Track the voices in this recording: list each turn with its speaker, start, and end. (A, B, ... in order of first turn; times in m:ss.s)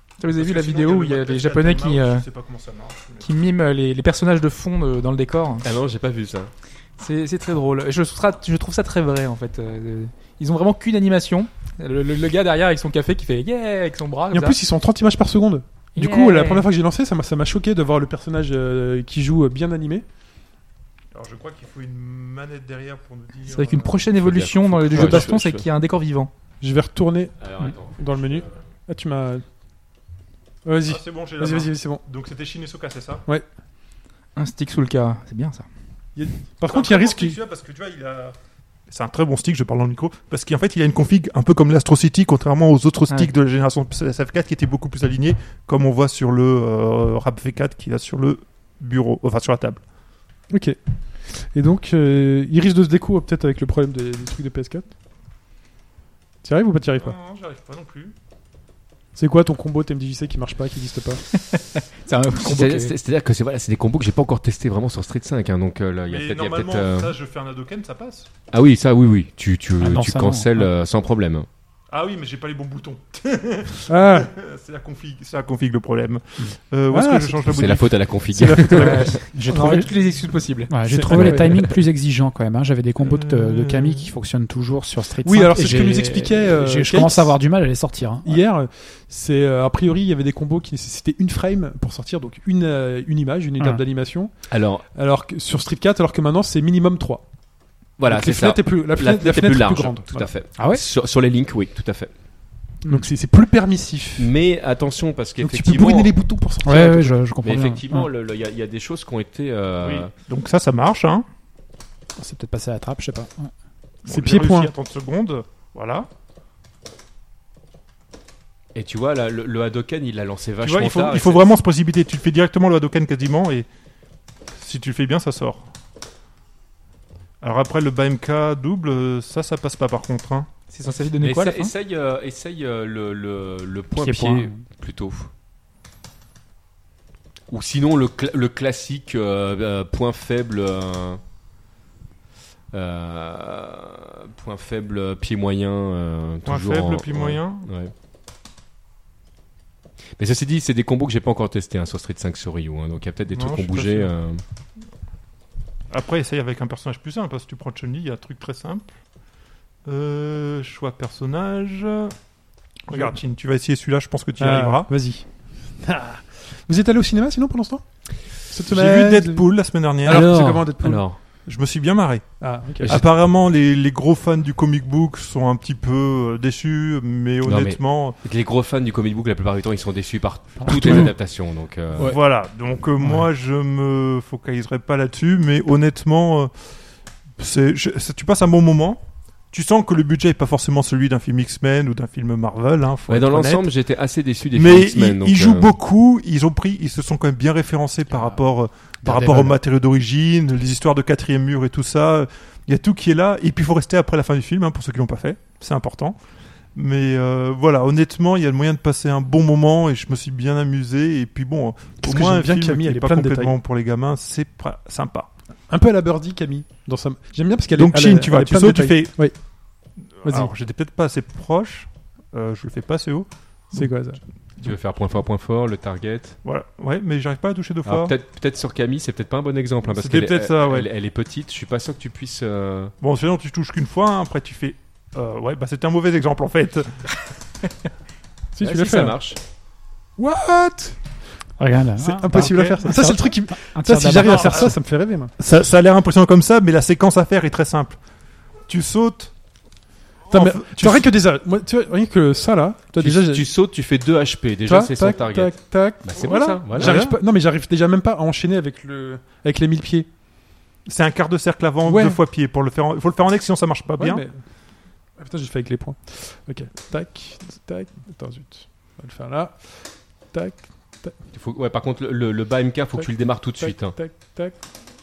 0:00.2-0:02.2 A
0:00.3-0:03.3 B
0:03.2-0:05.7 A
0:05.6-0:06.5 C
0:07.0-0:14.6 A
0:14.3-0:20.0 D
0:16.0-0:16.7 A
0:21.1-0:24.0 B
0:23.5-0:26.3 A
0:24.2-0:25.7 C
0:26.6-0:29.4 D
0:27.4-0:28.6 C
0:30.6-0:32.0 D
0:30.8-0:33.2 B
0:34.4-0:35.7 A
0:36.2-0:37.4 D
0:36.7-0:38.4 B
0:38.9-0:49.8 B
0:50.5-0:50.8 D
0:51.3-0:54.9 D
0:56.4-0:57.2 D
0:57.0-0:58.1 B
0:59.2-1:01.2 D
1:01.3-1:03.0 A
1:02.4-1:07.1 C
1:06.1-1:08.3 B
1:08.5-1:11.5 C
1:09.8-1:10.7 E
1:11.9-1:17.9 B
1:13.9-1:14.3 D
1:16.9-1:17.5 D
1:17.5-1:19.2 C
1:18.4-1:19.2 D
1:18.7-1:20.7 A
1:19.3-1:19.9 E
1:20.7-1:28.4 E
1:20.9-1:21.5 D
1:21.1-1:21.7 C
1:23.0-1:24.1 B
1:25.2-1:27.4 D
1:28.2-1:34.3 D
1:34.5-1:34.8 C
1:34.9-1:37.2 D
1:38.0-1:42.1 C
1:38.1-1:40.3 D
1:40.6-1:40.8 E
1:42.8-1:44.3 D
1:44.2-1:46.1 C
1:45.4-1:47.2 D
1:46.6-1:48.1 E
1:47.4-1:50.1 C
1:49.8-1:51.3 B
1:52.2-1:53.5 E
1:54.0-1:56.1 B
1:54.1-1:54.7 D
1:58.8-2:01.5 C
2:00.6-2:03.7 B
2:04.6-2:05.7 B
2:07.4-2:10.5 B
2:10.7-2:11.7 A
2:11.2-2:15.3 C
2:14.0-2:14.6 E
2:17.5-2:21.2 C
2:22.7-2:27.9 C
2:26.5-2:27.7 B
2:30.2-2:34.4 C
2:33.3-2:34.1 B
2:35.9-2:38.9 B
2:39.9-2:42.1 B
2:42.9-2:44.9 B
2:44.4-2:45.2 D
2:45.8-2:47.8 D
2:48.5-2:49.5 D
2:48.7-2:50.3 B
2:50.0-2:51.0 D
2:50.1-2:51.2 C
2:51.5-2:52.2 B
2:52.4-2:53.0 D
2:52.8-2:53.1 C
2:52.8-2:58.2 B
2:57.4-3:02.2 C
3:00.7-3:01.1 D
3:00.8-3:01.1 E
3:02.0-3:06.5 B
3:07.4-3:13.7 B
3:13.1-3:15.7 C
3:14.5-3:26.2 B
3:19.1-3:19.5 E
3:26.8-3:35.3 B
3:32.0-3:33.6 D
3:35.7-3:39.4 D
3:37.8-3:39.2 B
3:40.2-3:43.9 B
3:40.2-3:40.5 D
3:43.7-3:44.2 D
3:44.6-3:46.4 C
3:46.4-3:48.1 B
3:47.9-3:52.9 C
3:49.9-3:50.9 B
3:53.0-3:57.1 B
3:58.6-3:59.2 D
3:58.6-3:59.4 C
4:00.2-4:01.0 D
4:01.6-4:04.8 E
4:02.0-4:05.3 D
4:02.3-4:02.8 B
4:04.2-4:04.7 B
4:05.4-4:08.0 B
4:08.7-4:09.3 B
4:10.3-4:11.1 B
4:10.3-4:13.5 D
4:13.0-4:17.1 C
4:14.7-4:20.1 D
4:16.8-4:17.2 B
4:20.9-4:24.2 B
4:21.8-4:22.2 D
4:24.0-4:24.4 D
4:25.2-4:29.7 D
4:30.3-4:31.2 D
4:31.3-4:34.0 C
4:33.0-4:34.6 D